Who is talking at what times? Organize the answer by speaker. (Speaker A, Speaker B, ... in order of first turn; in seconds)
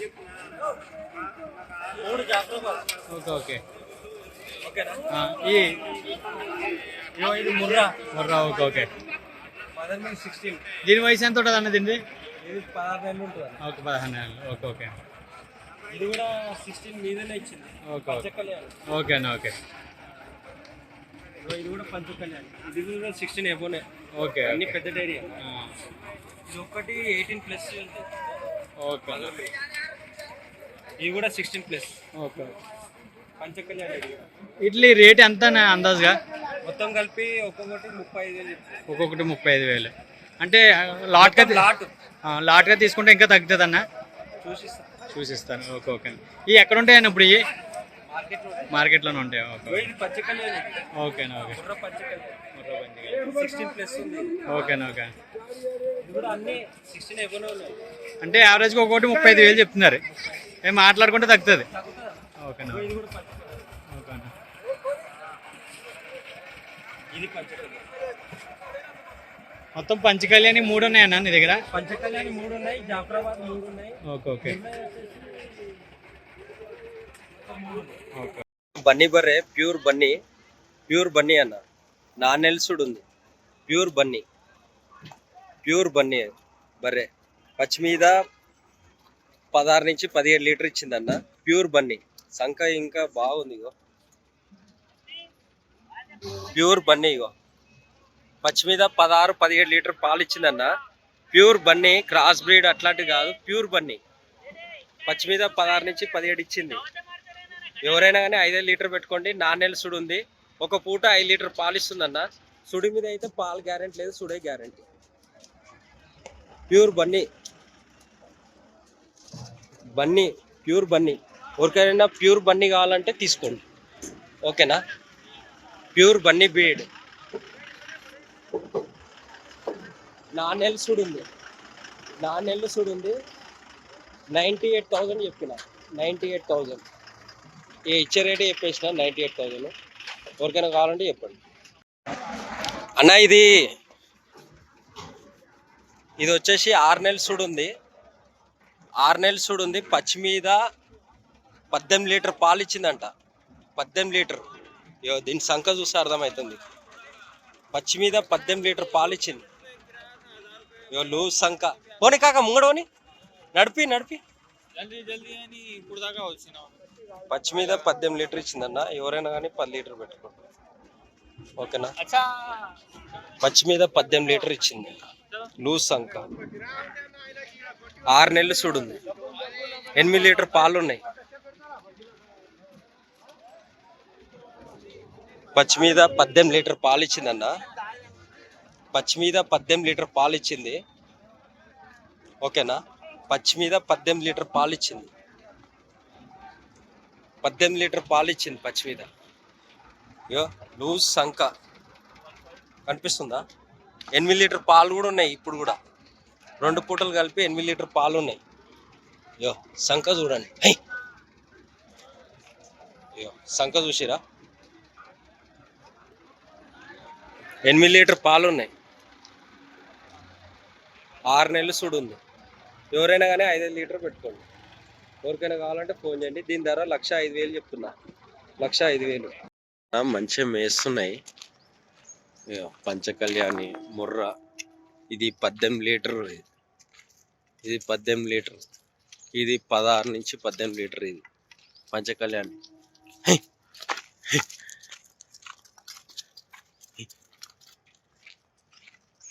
Speaker A: 2.0-2.8, 4.6-5.0, 7.1-7.9, 9.8-10.6, 12.4-13.6, 15.9-18.7, 21.4-23.8, 24.4-25.4, 26.5-28.1, 29.1-29.5, 31.0-31.9, 33.4-34.2, 36.6-38.8, 41.2-41.9, 44.4-44.9, 48.1-48.7, 49.7-50.9, 51.5-52.4, 53.1-54.4, 56.0-57.8, 61.7-62.2, 62.7-63.5, 67.1-67.8, 71.7-75.4, 77.6-77.9, 78.8-80.1, 80.9-81.6, 82.2-83.0, 83.7-84.2, 85.6-88.2, 89.5-93.7, 96.4-97.3, 98.4-100.7, 101.3-104.0, 105.0-106.8, 107.8-114.8, 116.7-117.2, 120.0-123.6, 124.4-124.8, 125.9-126.9, 130.3-131.2, 132.2-133.2, 134.3-136.8, 137.9-139.7, 140.4-141.4, 143.0-143.6, 146.2-147.7, 149.0-150.6, 151.7-153.1, 153.8-154.4, 155.0-156.6, 157.7-159.4, 160.9-162.9, 163.5-164.2, 167.3-170.4, 171.6-171.9, 173.4-175.0, 175.6-176.2, 178.1-179.0, 179.9-181.0, 185.5-187.5, 188.9-190.8, 192.4-195.1, 197.4-199.1, 200.3-201.5, 202.9-203.4, 204.1-205.8, 206.6-208.4, 209.4-210.8, 213.2-214.2, 217.6-218.7, 221.3-222.2, 222.9-224.4, 225.2-227.9, 228.6-229.3, 229.9-231.1, 232.5-234.3, 235.1-236.4, 237.7-238.6, 239.4-241.2, 241.9-242.6
Speaker B: 3.1-3.6, 5.1-5.7, 8.1-8.9, 10.8-12.0, 13.6-14.9, 17.9-18.2, 18.9-19.5, 24.2-24.8, 25.4-25.7, 28.8-29.3, 32.1-32.5, 34.6-36.2, 38.9-41.6, 42.3-43.8, 45.1-47.4, 48.7-49.9, 51.0-51.6, 52.5-53.3, 54.5-55.1, 58.2-60.0, 60.6-61.7, 62.4-62.9, 63.9-64.3, 69.8-71.6, 74.0-74.6, 78.2-78.4, 164.8-166.5